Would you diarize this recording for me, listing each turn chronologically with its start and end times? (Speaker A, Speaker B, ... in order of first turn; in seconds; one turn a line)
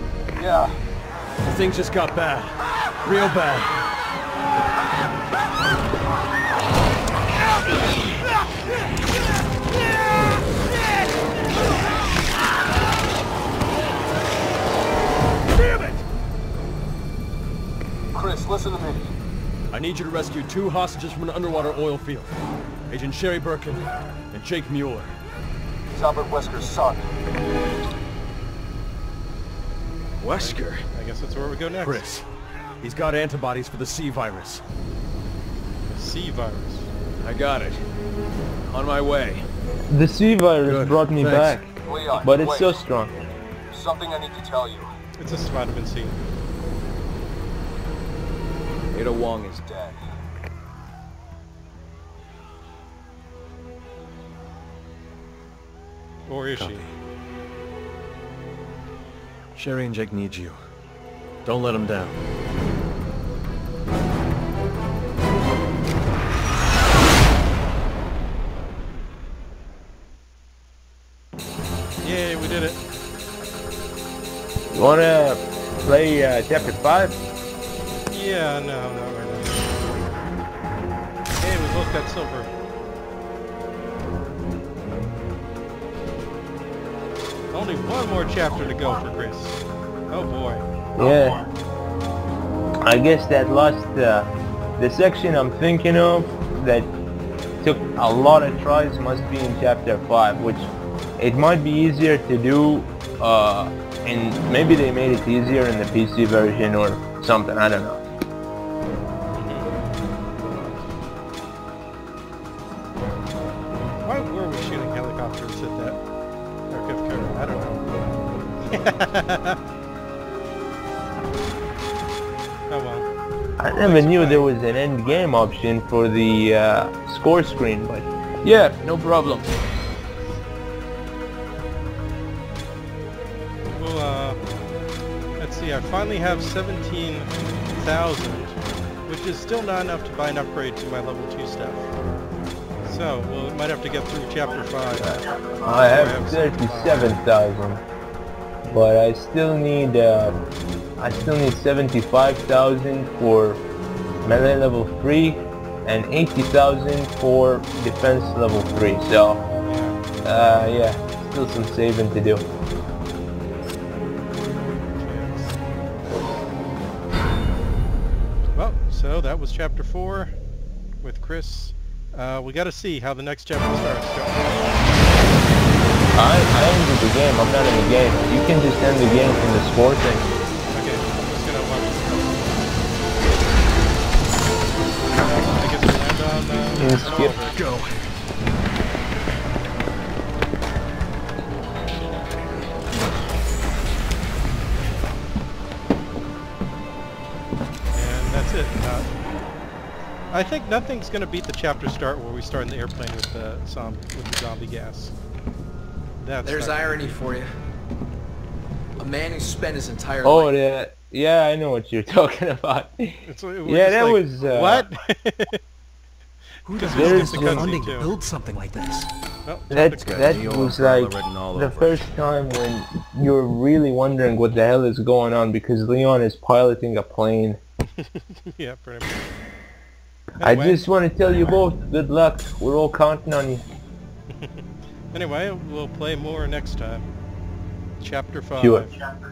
Speaker A: 0.4-0.7
Speaker B: 1.4-3.8
Speaker B: 15.5-16.0
Speaker A: 18.1-19.1
Speaker B: 19.7-22.3
Speaker B: 22.9-25.1
Speaker A: 25.9-27.1
Speaker B: 30.2-30.8
Speaker C: 30.3-32.1
Speaker B: 31.8-32.2
Speaker B: 32.8-34.6
Speaker C: 35.8-36.9
Speaker B: 37.2-37.8
Speaker B: 38.7-39.5
Speaker D: 39.9-41.7
Speaker B: 40.6-41.6
Speaker A: 41.9-42.8
Speaker D: 42.2-43.1
Speaker A: 43.7-44.9
Speaker C: 45.2-46.2
Speaker B: 49.0-49.7
Speaker A: 49.7-50.0
Speaker C: 56.2-56.9
Speaker B: 56.5-56.9
Speaker B: 59.5-60.6
Speaker B: 61.4-62.2
Speaker C: 72.0-72.8
Speaker D: 74.7-77.2
Speaker C: 78.1-79.7
Speaker C: 81.4-82.5
Speaker C: 87.5-90.6
Speaker D: 91.0-91.4
Speaker D: 92.8-96.9
Speaker D: 97.6-108.0
Speaker C: 109.3-109.8
Speaker C: 110.5-110.8
Speaker C: 114.0-116.0
Speaker C: 116.7-117.9
Speaker C: 118.7-119.6
Speaker C: 122.7-123.1
Speaker D: 123.6-129.5
Speaker C: 123.7-124.6
Speaker C: 133.7-134.4
Speaker C: 135.4-141.9
Speaker C: 142.8-147.2
Speaker D: 145.0-147.8
Speaker D: 148.6-150.4
Speaker D: 151.0-153.6
Speaker D: 154.2-159.4
Speaker C: 159.6-160.0
Speaker D: 160.2-162.4
Speaker C: 164.9-165.6
Speaker C: 168.5-170.3
Speaker C: 171.0-175.3
Speaker D: 176.2-180.3
Speaker C: 180.7-182.7
Speaker C: 185.1-187.6
Speaker D: 186.8-187.3
Speaker B: 187.5-187.9
Speaker C: 197.9-199.1
Speaker C: 200.3-205.1
Speaker C: 206.2-207.3
Speaker E: 206.4-207.5
Speaker E: 209.0-210.5
Speaker D: 210.2-214.8
Speaker C: 213.2-215.6
Speaker F: 216.7-219.1
Speaker C: 216.7-218.2
Speaker D: 216.9-217.8
Speaker C: 219.4-220.3
Speaker D: 219.7-227.6
Speaker B: 220.0-221.9
Speaker C: 228.0-229.2
Speaker C: 230.4-230.8
Speaker D: 230.4-233.6
Speaker C: 234.3-234.6
Speaker C: 235.1-237.1
Speaker C: 238.0-239.0
Speaker D: 238.6-238.9